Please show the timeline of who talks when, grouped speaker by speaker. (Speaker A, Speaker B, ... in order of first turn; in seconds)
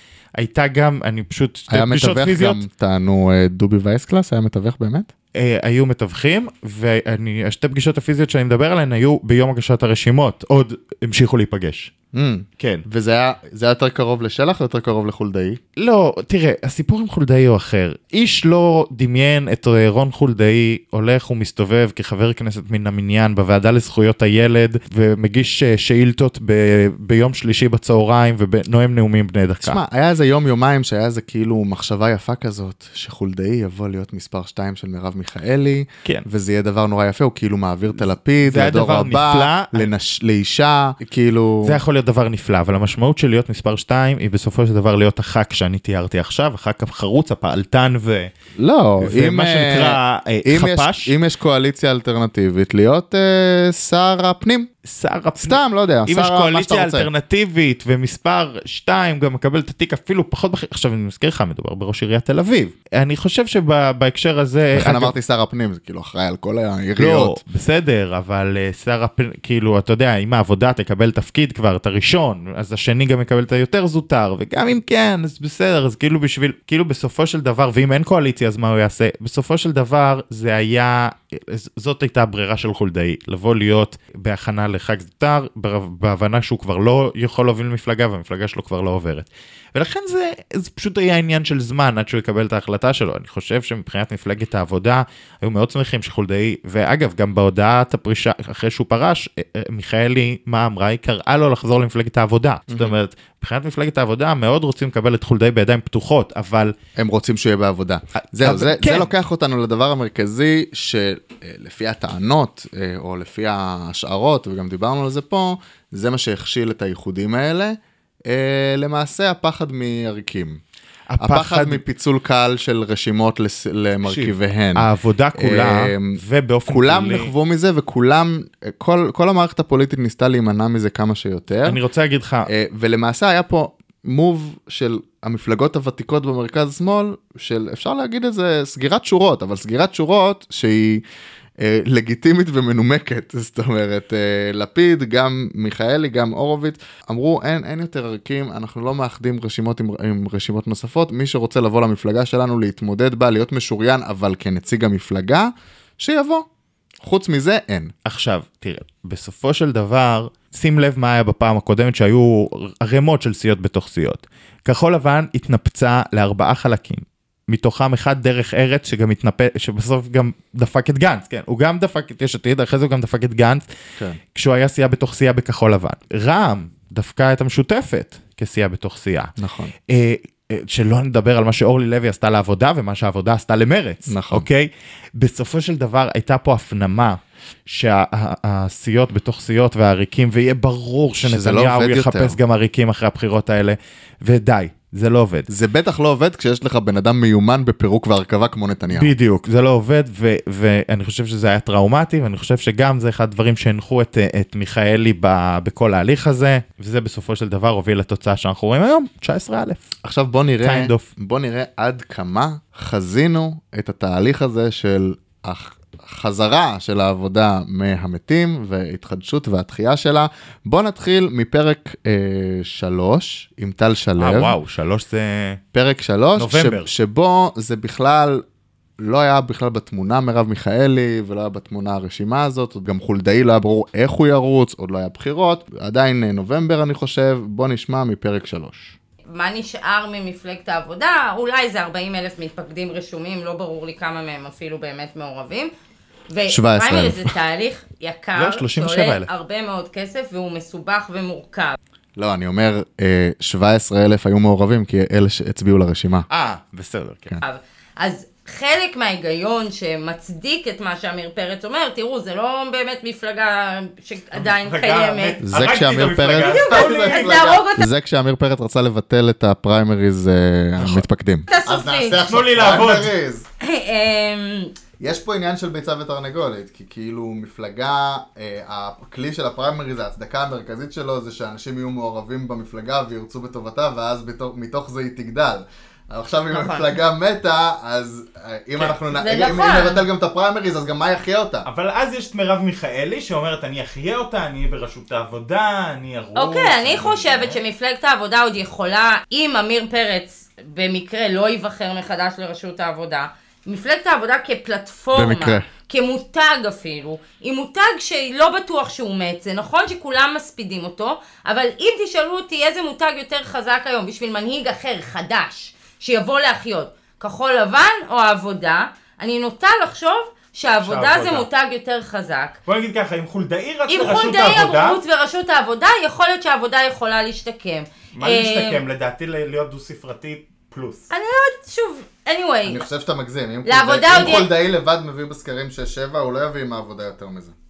Speaker A: 0.4-2.6, 5.3-11.9, 12.6-12.8, 15.8-29.8, 38.4-39.9, 41.6-48.3, 49.0-51.1, 54.8-65.1, 67.0-106.7, 108.3-109.1, 121.1-121.8, 124.0-127.3, 131.6-132.5, 158.0-173.7, 174.3-179.3, 179.9-195.5, 198.9-209.9, 210.6-211.1, 224.2-225.6, 226.4-226.9, 248.3-249.3, 256.3-257.4, 296.2-297.4
Speaker B: 1.7-5.1, 12.1-15.6, 29.6-41.8, 48.6-54.7, 55.4-57.1, 64.7-67.4, 102.7-102.9, 107.0-120.6, 121.2-131.8, 132.4-141.0, 141.6-156.4, 157.0-157.9, 179.4-179.7, 184.1-184.5, 191.2-192.4, 195.5-199.1, 210.0-224.6, 225.7-228.4, 229.0-238.9, 246.5-247.3, 252.2-256.3, 265.4-273.4, 275.0-291.7, 305.1-305.7, 332.6-337.5
Speaker C: 239.3-245.7, 246.3-251.8, 257.4-265.4, 266.4-267.9, 271.5-272.4, 273.6-274.7, 286.5-286.9, 289.1-290.0, 296.4-322.6, 323.9-328.8, 331.1-332.8, 333.6-334.5
Speaker D: 264.3-267.5, 272.3-273.1, 291.7-297.6, 320.8-321.4, 322.7-325.0, 328.2-331.1